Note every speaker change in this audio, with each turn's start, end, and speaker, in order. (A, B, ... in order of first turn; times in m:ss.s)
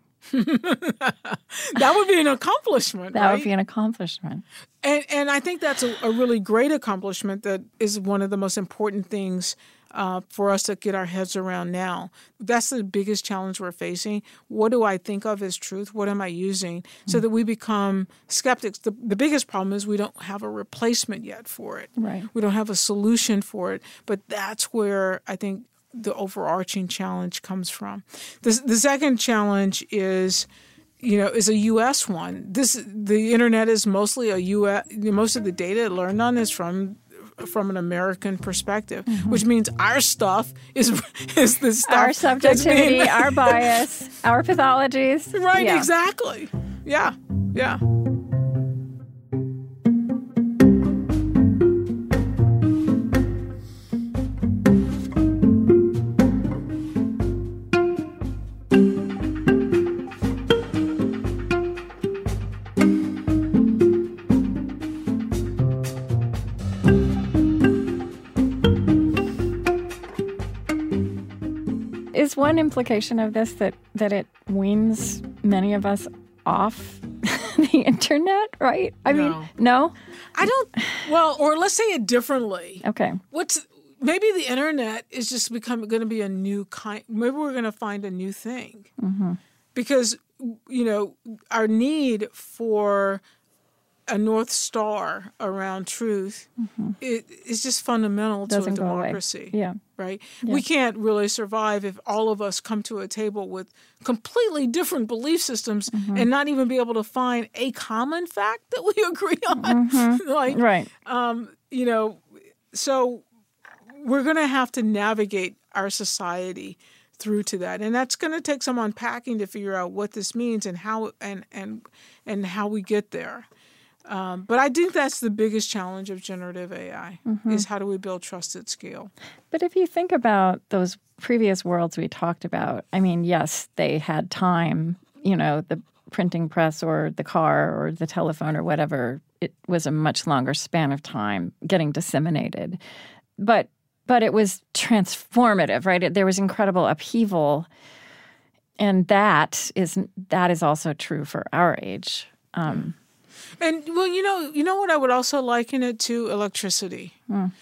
0:00.3-0:03.5 A
0:03.1-0:04.4 B
0:04.8-0:30.5 A
0:22.0-0:22.3 B
0:31.0-0:43.8 A
0:39.1-0:39.4 B
0:41.8-0:45.9 B
0:45.3-0:47.8 A
1:12.1-1:20.0 B
1:19.1-1:19.5 A
1:20.4-1:28.9 A
1:22.8-1:23.2 B
1:29.0-1:29.4 B
1:29.8-1:33.2 A
1:34.1-1:36.5 A
1:36.6-1:37.0 B
1:37.0-1:53.2 A
1:38.5-1:39.8 B
1:45.9-1:46.3 B
1:49.6-1:50.9 B
1:53.9-2:03.5 A
2:04.1-2:09.1 A
2:07.3-2:07.6 B
2:09.5-2:22.8 B
2:23.4-2:27.7 B
2:28.8-2:33.0 B
2:33.6-2:37.2 A